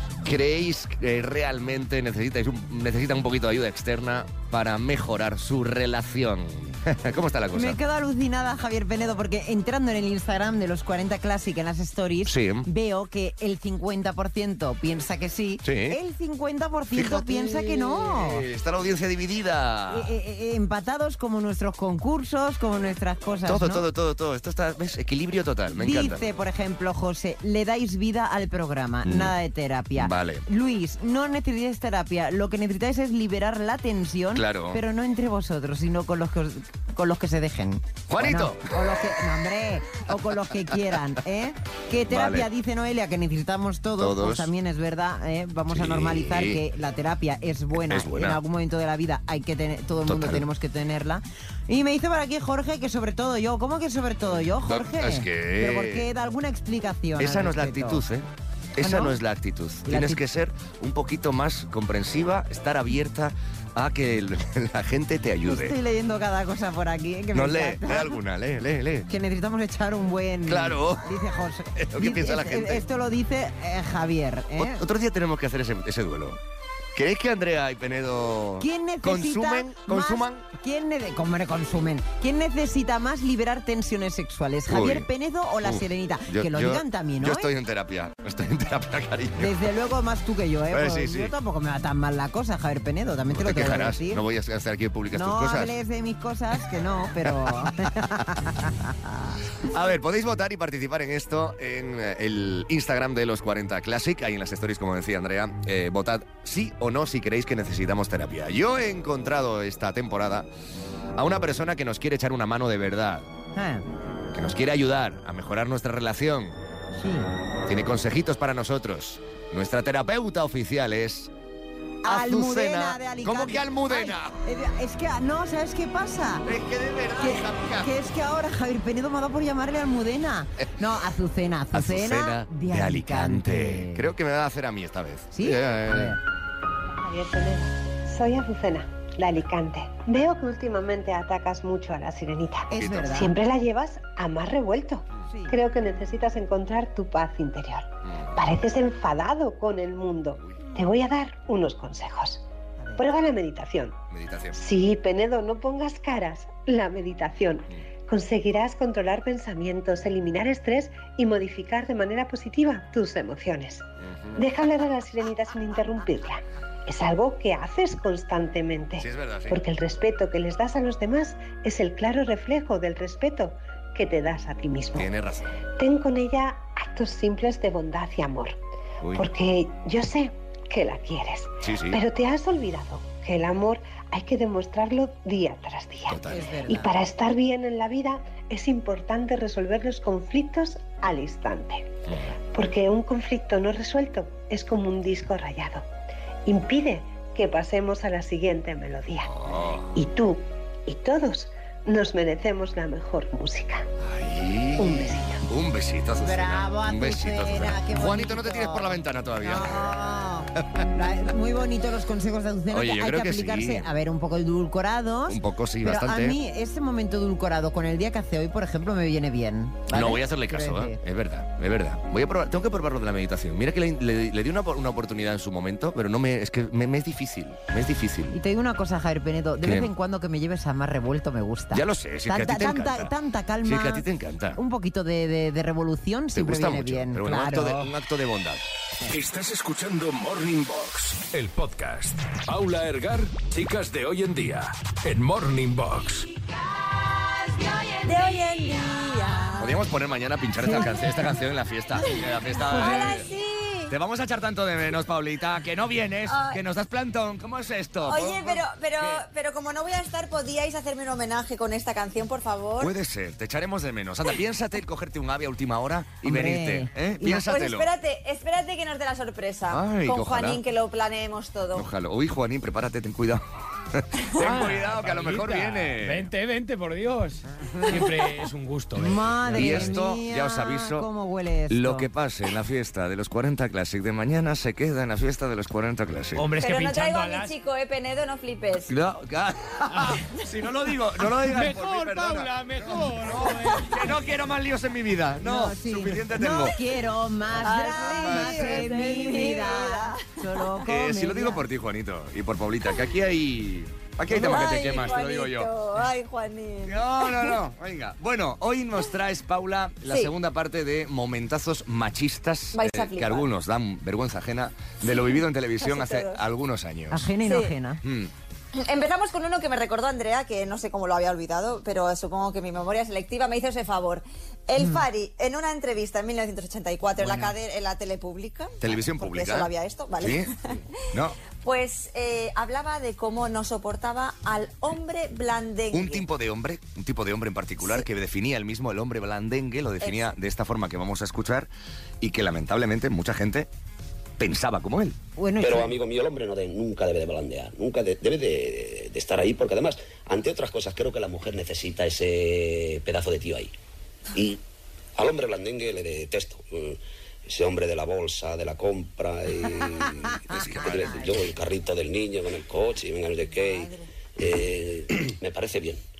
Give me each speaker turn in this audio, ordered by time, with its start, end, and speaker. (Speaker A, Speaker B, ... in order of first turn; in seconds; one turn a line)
Speaker A: 0.2-7.8
Speaker B: 7.5-18.4
Speaker A: 12.2-12.7
Speaker A: 15.6-16.0
Speaker A: 16.9-20.1
Speaker B: 19.9-23.8
Speaker A: 23.4-26.2
Speaker B: 25.8-58.0
Speaker A: 29.0-29.4
Speaker A: 29.9-30.4
Speaker A: 34.3-34.8
Speaker A: 38.1-39.0
Speaker A: 42.1-42.5
Speaker A: 44.0-44.5
Speaker A: 45.7-46.6
Speaker A: 47.8-48.4
Speaker A: 50.0-50.5
Speaker A: 54.5-56.1
Speaker A: 57.2-65.8
Speaker B: 58.8-59.1
Speaker B: 59.9-60.2
Speaker B: 65.5-68.2
Speaker A: 67.3-69.1
Speaker B: 69.1-74.8
Speaker A: 70.5-71.2
Speaker A: 71.8-72.8
Speaker A: 74.6-76.4
Speaker A: 76.9-80.5
Speaker B: 78.6-87.5
Speaker A: 84.7-85.1
Speaker A: 85.6-89.6
Speaker B: 89.4-94.2
Speaker A: 90.7-91.3
Speaker A: 93.3-95.7
Speaker B: 95.1-99.4
Speaker A: 97.2-98.2
Speaker A: 99.6-110.5
Speaker A: 111.1-113.3
Speaker B: 113.5-113.8
Speaker A: 114.3-116.5
Speaker B: 117.0-117.3
Speaker A: 117.7-121.3
Speaker B: 122.0-126.5
Speaker A: 122.0-124.4
Speaker A: 126.4-127.9
Speaker B: 127.2-134.1
Speaker A: 131.7-136.2
Speaker B: 135.3-136.2
Speaker C: 137.0-152.4
Speaker B: 142.7-143.3
Speaker A: 142.7-143.3
Speaker B: 145.3-145.6
Speaker C: 153.0-154.0
Speaker A: 154.1-154.6
Speaker C: 154.5-175.1
Speaker A: 164.0-164.4
Speaker A: 169.0-169.6
Speaker A: 174.9-175.6
Speaker C: 175.8-178.6
Speaker A: 179.0-179.3
Speaker C: 179.1-191.9
Speaker A: 181.6-182.0
Speaker A: 186.1-186.5
Speaker B: 186.2-186.9
Speaker C: 192.5-195.9
Speaker C: 196.4-199.3
Speaker A: 199.3-199.9
Speaker C: 199.9-203.8
Speaker A: 204.0-209.9
Speaker C: 204.8-205.4
Speaker B: 206.2-221.0
Speaker A: 210.6-210.9
Speaker A: 212.7-213.9
Speaker A: 215.3-216.4
Speaker A: 219.9-228.4
Speaker B: 228.3-237.9
Speaker A: 229.6-229.9
Speaker A: 231.7-234.6
Speaker A: 236.3-238.6
Speaker D: 239.1-246.3
Speaker E: 248.0-249.7
Speaker A: 249.6-253.3
Speaker E: 252.0-253.9
Speaker A: 253.9-259.2
Speaker E: 256.3-256.6
Speaker E: 258.0-262.9
Speaker A: 262.8-267.9
Speaker B: 266.2-267.4
Speaker E: 267.3-271.9
Speaker A: 269.7-270.6
Speaker A: 271.7-276.3
Speaker F: 274.4-280.0
Speaker B: 278.9-282.1
Speaker A: 279.5-281.1
Speaker A: 281.7-286.5
Speaker F: 286.3-287.5
Speaker E: 286.6-288.9
Speaker A: 288.9-296.8
Speaker F: 289.9-290.2
Speaker F: 291.4-294.1
Speaker B: 295.4-301.6
Speaker E: 297.6-300.7
Speaker A: 297.7-299.2
Speaker A: 300.9-305.7
Speaker E: 304.3-307.5
Speaker A: 306.8-317.3
Speaker E: 310.1-310.3
Speaker E: 312.7-313.5
Speaker E: 315.0-316.4
Speaker B: 317.1-318.0
Speaker E: 317.4-317.7
Speaker A: 318.0-318.3
Speaker E: 318.7-330.8
Speaker B: 324.8-325.0
Speaker A: 327.2-327.5
Speaker A: 328.8-330.5
Speaker A: 331.1-331.4
Speaker E: 331.6-336.2
Speaker A: 335.9-341.7
Speaker E: 340.0-340.3
Speaker A: 342.2-343.7
Speaker A: 344.4-345.2
Speaker B: 345.4-345.9
Speaker G: 345.6-353.7
Speaker G: 354.3-354.6
Speaker G: 355.2-366.0
Speaker A: 360.5-361.4
Speaker E: 363.5-364.0